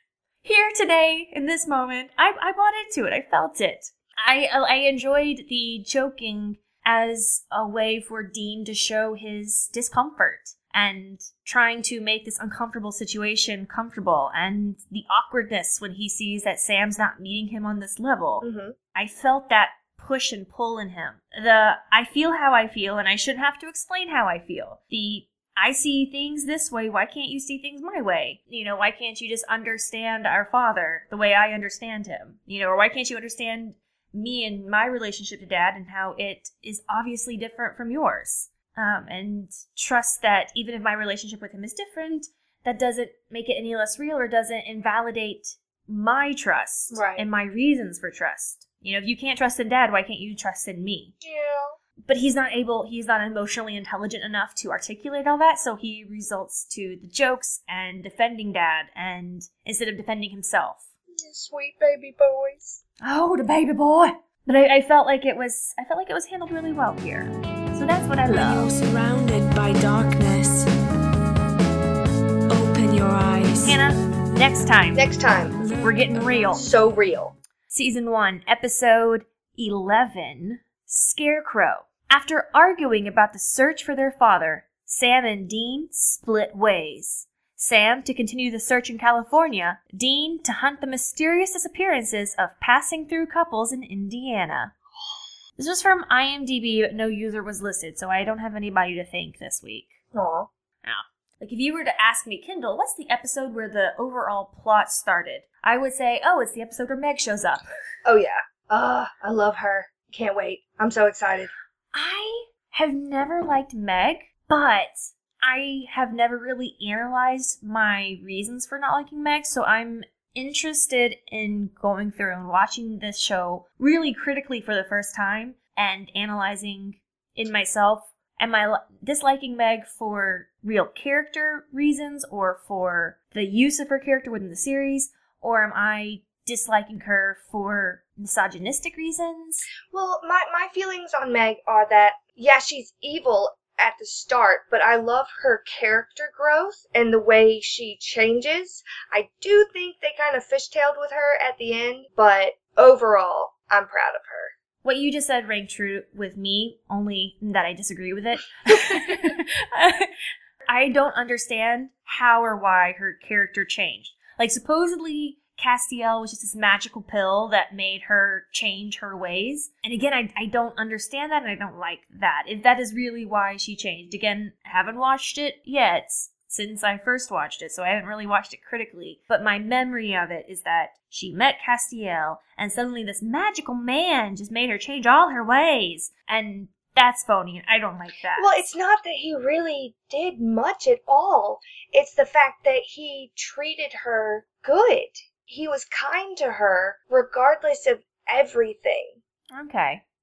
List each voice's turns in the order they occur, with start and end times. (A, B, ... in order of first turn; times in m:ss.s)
0:00.4-0:51.1 A
0:18.4-0:18.8 B
0:46.9-0:47.3 B
0:51.2-0:51.8 B
0:52.0-1:00.9 A
1:01.2-1:02.8 B
1:03.0-1:08.7 A
1:08.3-1:10.7 C
1:12.5-1:13.8 C
1:13.6-1:15.0 A
1:15.0-1:15.6 B
1:15.6-1:16.6 C
1:15.8-1:16.7 A
1:16.5-1:17.4 B
1:17.7-1:34.7 A
1:35.6-1:39.9 A
1:40.1-1:40.5 B
1:40.8-1:47.6 A
1:48.0-1:51.5 B
1:51.9-2:19.7 A
2:19.9-2:34.5 B
2:34.8-2:40.1 A
2:38.7-2:39.0 B
2:40.7-3:08.7 A
3:08.4-3:19.2 B
3:19.5-3:20.0 A